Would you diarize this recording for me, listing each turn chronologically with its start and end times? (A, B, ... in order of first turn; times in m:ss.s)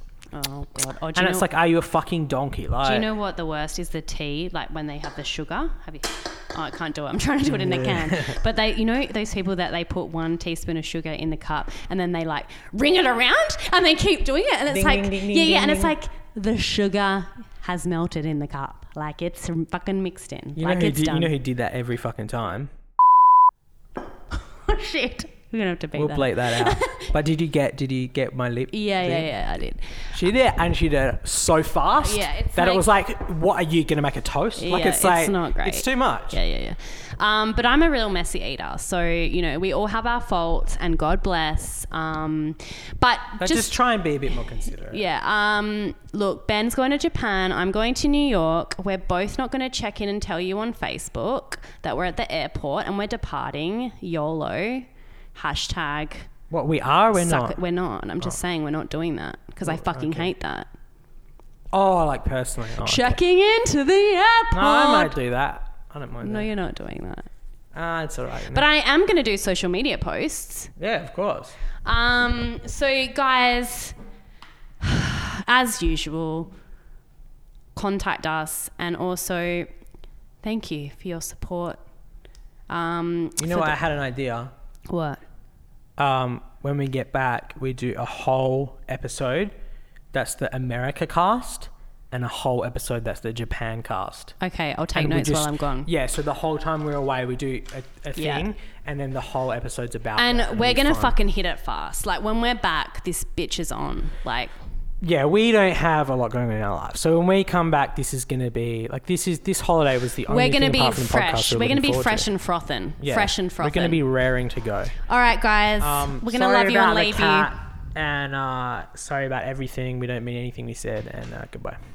0:00.3-0:01.5 A
0:01.2-0:03.1 B
0:02.8-0:21.3 A
0:07.5-0:08.4 B
0:14.7-0:16.0 B
0:20.6-0:22.7 B
0:24.5-0:27.1 A
0:26.0-0:29.3 B
0:28.7-0:30.0 A
0:30.1-0:36.4 B
0:32.0-0:32.9 A
0:34.6-0:43.8 A
0:43.4-0:45.0 B
0:44.9-0:56.3 A
0:56.5-0:57.6 B
0:57.1-1:00.7 A
0:59.7-1:00.3 B
1:01.7-1:03.2 B
1:02.8-1:05.1 A
1:04.5-1:06.5 B
1:06.2-1:07.3 A
1:07.7-1:08.6 B
1:08.5-1:10.7 A
1:10.8-1:11.6 B
1:11.8-1:14.0 A
1:14.8-1:16.5 A
1:17.8-1:19.7 A
1:20.4-1:21.8 A
1:22.7-1:23.8 A
1:23.4-1:24.5 B
1:24.9-1:25.2 A
1:26.0-1:29.5 B
1:30.1-1:34.4 B
1:34.4-1:35.9 A
1:34.9-1:41.2 B
1:38.2-1:38.5 A
1:40.2-1:44.5 A
1:45.0-1:52.3 B
1:50.3-1:54.0 A
1:53.0-1:55.0 B
1:55.1-1:57.6 A
1:55.8-2:01.8 B